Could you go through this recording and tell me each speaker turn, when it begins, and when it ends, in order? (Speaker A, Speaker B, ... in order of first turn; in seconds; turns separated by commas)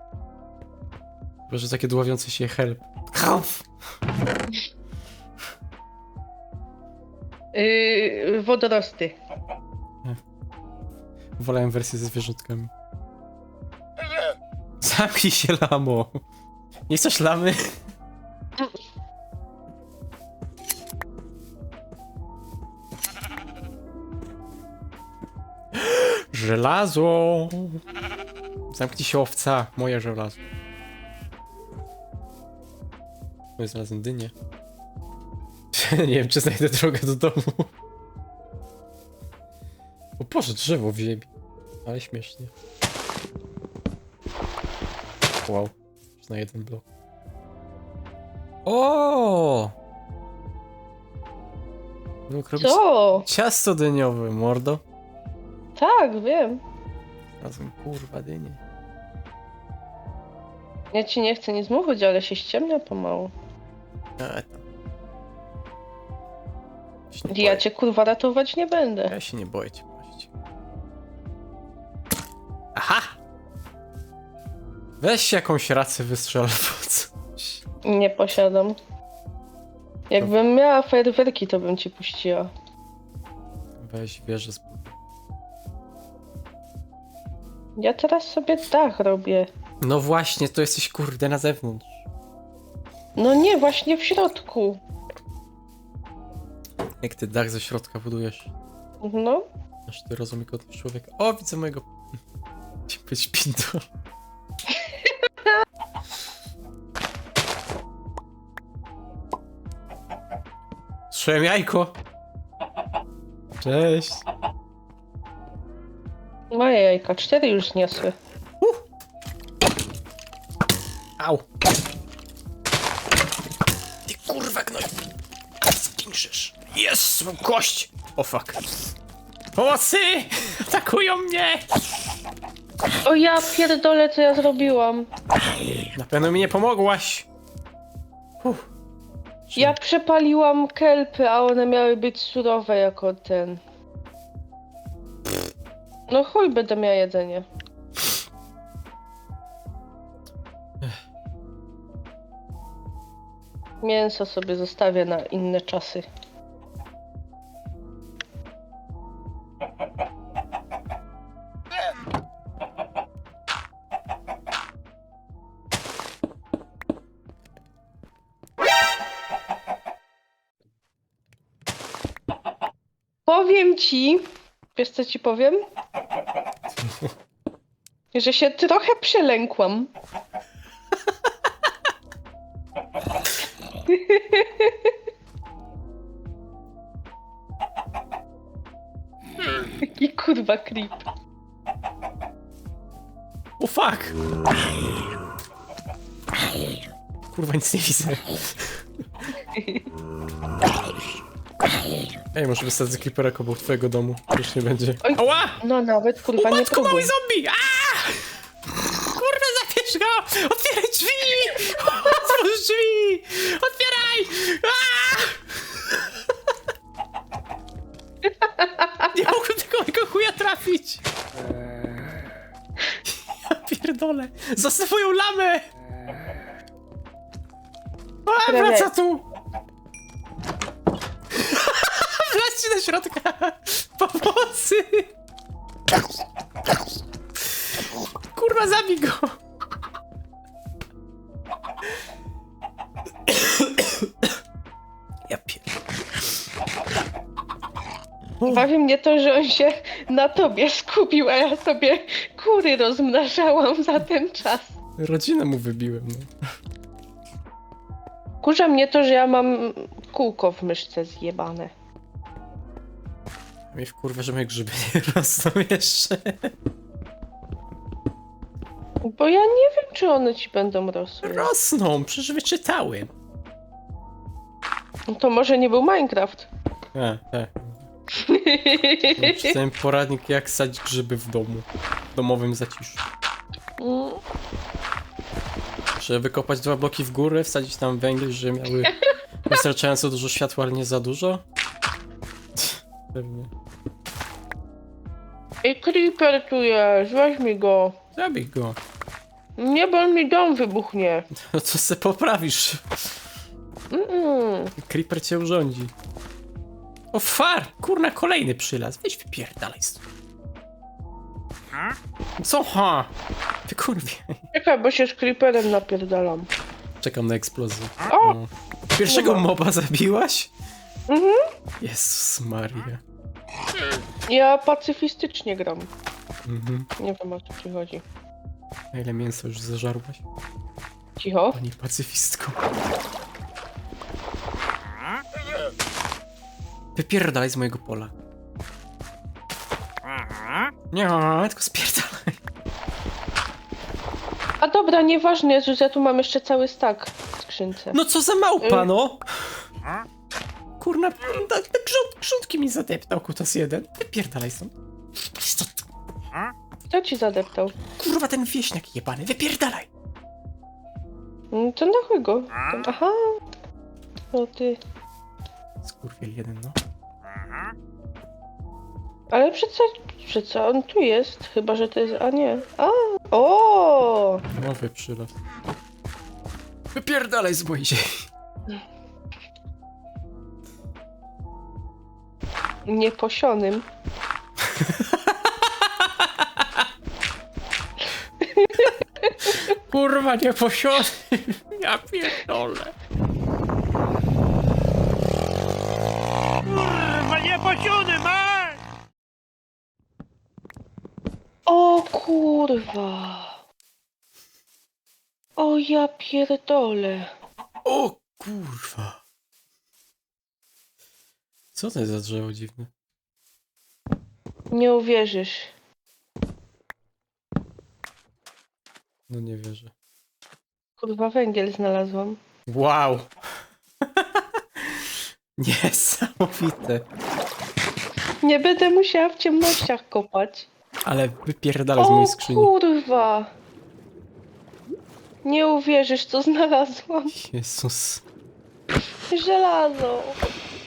Speaker A: 1.5-3.7, Speaker B: 7.5-9.1, Speaker A: 11.4-12.7, Speaker A: 14.8-16.2, Speaker A: 16.9-17.6, Speaker A: 25.7-27.8, Speaker A: 28.7-30.4, Speaker A: 33.6-34.3, Speaker A: 35.7-37.7, Speaker A: 40.2-41.3, Speaker A: 41.9-42.5, Speaker A: 45.5-46.8, Speaker A: 48.6-49.7, Speaker A: 52.3-54.8, Speaker B: 52.6-53.3, Speaker B: 55.8-56.6, Speaker A: 57.4-58.6, Speaker B: 60.9-63.3, Speaker A: 64.2-64.6, Speaker A: 67.1-67.6, Speaker B: 67.3-69.1, Speaker A: 69.1-70.3, Speaker A: 72.7-73.1, Speaker A: 75.0-77.6, Speaker B: 77.8-78.8, Speaker B: 80.1-82.5, Speaker A: 83.8-84.9, Speaker B: 87.8-89.5, Speaker A: 89.8-92.0, Speaker B: 93.2-94.8, Speaker A: 97.0-98.5, Speaker B: 99.0-99.4, Speaker A: 99.9-101.9, Speaker A: 102.9-103.8, Speaker B: 104.7-105.5, Speaker A: 111.1-112.0, Speaker A: 113.6-114.2, Speaker B: 116.5-118.1, Speaker A: 121.2-121.4, Speaker A: 124.1-124.9, Speaker A: 125.7-128.6, Speaker A: 129.6-131.6, Speaker B: 133.0-135.1, Speaker A: 135.9-137.3, Speaker A: 138.4-138.7, Speaker A: 139.5-139.8, Speaker B: 139.6-143.6, Speaker B: 146.1-147.4, Speaker B: 153.8-156.1, Speaker B: 173.2-174.2, Speaker B: 174.8-175.6, Speaker A: 176.8-177.1, Speaker B: 178.1-179.9, Speaker B: 183.9-184.9, Speaker B: 189.8-191.1, Speaker A: 193.6-194.1, Speaker A: 197.3-198.8, Speaker B: 199.5-199.9, Speaker A: 202.3-205.6, Speaker B: 205.0-207.1, Speaker A: 206.4-208.3, Speaker A: 209.1-216.1, Speaker B: 218.2-219.1, Speaker A: 219.1-221.0, Speaker A: 223.1-225.7, Speaker A: 228.2-229.2, Speaker B: 228.4-228.9, Speaker A: 231.3-235.1, Speaker A: 238.3-239.4, Speaker A: 243.3-244.1, Speaker A: 245.3-245.7, Speaker A: 248.4-248.7, Speaker B: 248.5-254.8, Speaker A: 255.0-256.3, Speaker B: 258.4-261.7, Speaker A: 263.7-266.5, Speaker B: 269.0-271.5, Speaker A: 271.2-273.1, Speaker B: 275.1-276.5, Speaker A: 276.9-277.9, Speaker B: 278.2-279.5, Speaker A: 279.1-283.0, Speaker B: 283.8-284.2, Speaker A: 286.0-288.9, Speaker A: 289.4-291.4, Speaker A: 292.6-293.5, Speaker B: 295.6-297.9, Speaker A: 298.1-298.8, Speaker B: 299.6-301.3, Speaker A: 301.4-303.0, Speaker B: 303.9-304.7, Speaker A: 304.8-305.9, Speaker A: 307.1-310.0, Speaker A: 312.4-313.1, Speaker A: 313.7-314.4, Speaker B: 314.5-316.5, Speaker A: 317.0-320.5, Speaker B: 318.1-318.4, Speaker B: 319.1-319.4, Speaker B: 321.1-321.4, Speaker A: 321.8-323.0, Speaker B: 324.3-325.9, Speaker A: 326.4-326.9, Speaker B: 327.0-328.0, Speaker A: 328.9-330.2, Speaker B: 331.2-331.6, Speaker A: 331.5-332.6, Speaker A: 336.9-338.1, Speaker A: 340.9-342.4, Speaker B: 344.6-348.0, Speaker A: 347.9-349.5, Speaker B: 348.6-348.9, Speaker A: 350.8-354.7, Speaker A: 355.2-355.8, Speaker B: 356.9-357.8, Speaker A: 358.0-359.9, Speaker B: 361.5-363.4, Speaker B: 364.3-364.8, Speaker A: 365.8-366.8, Speaker B: 369.3-374.4, Speaker A: 374.5-375.3, Speaker A: 376.9-378.2, Speaker B: 382.9-383.8, Speaker A: 384.7-386.6, Speaker B: 388.4-389.7, Speaker A: 389.5-392.9, Speaker A: 396.8-398.7, Speaker B: 401.7-403.6, Speaker B: 405.6-407.3, Speaker A: 407.8-409.2, Speaker A: 411.7-412.9, Speaker B: 414.7-415.7, Speaker A: 419.3-419.9, Speaker B: 421.0-422.4, Speaker A: 422.7-423.3, Speaker A: 424.1-427.1, Speaker B: 428.4-430.7, Speaker A: 431.0-432.7, Speaker B: 432.0-433.5, Speaker B: 435.4-437.3, Speaker A: 437.3-438.2, Speaker B: 439.3-440.4